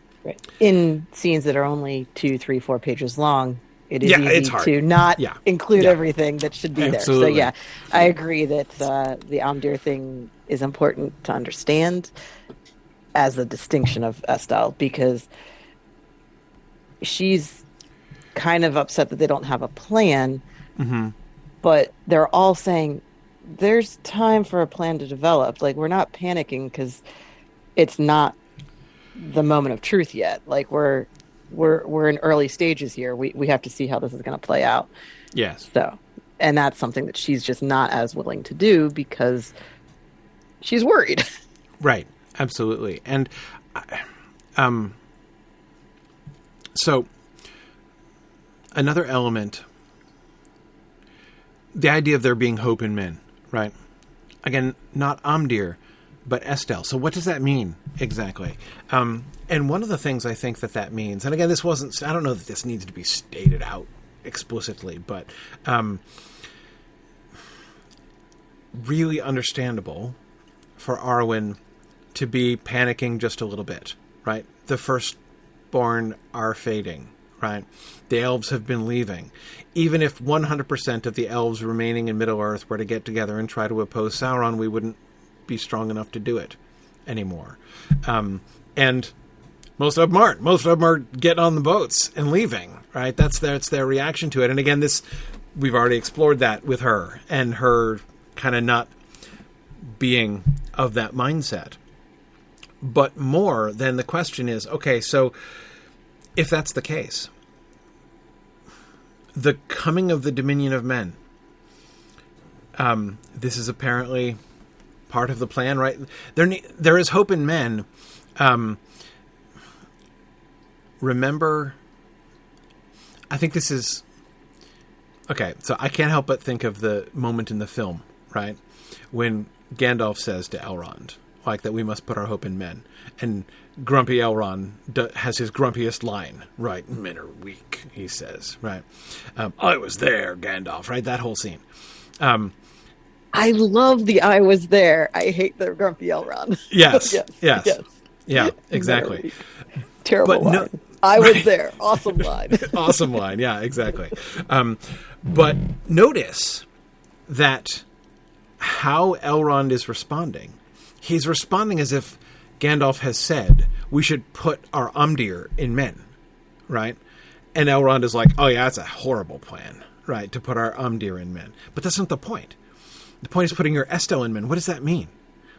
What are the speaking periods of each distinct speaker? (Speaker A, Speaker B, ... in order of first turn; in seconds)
Speaker A: 0.2-12.1, 13.1-15.3, 17.0-17.6, 18.3-20.4, 21.6-27.0, 27.8-28.4, 29.1-34.9, 35.7-39.5, 40.6-41.3, 143.3-149.3, 150.0-153.1
Speaker B: 4.0-6.0, 6.8-7.5, 20.8-21.1, 35.3-35.7, 41.8-45.0, 46.7-47.1, 48.7-49.6, 51.7-53.7, 54.4-66.0, 68.7-70.2, 70.8-71.6, 72.1-75.2, 75.7-89.1, 89.8-98.9, 99.8-101.8, 102.8-105.3, 106.3-107.3, 109.3-111.2, 112.7-114.4, 115.1-118.8, 121.0-121.8, 123.3-124.0, 125.3-128.6, 129.1-141.6, 142.2-142.5, 146.7-149.3, 150.2-151.5, 152.2-156.7, 157.3-157.8, 158.6-166.0, 166.7-167.0, 167.5-172.6, 173.2-175.1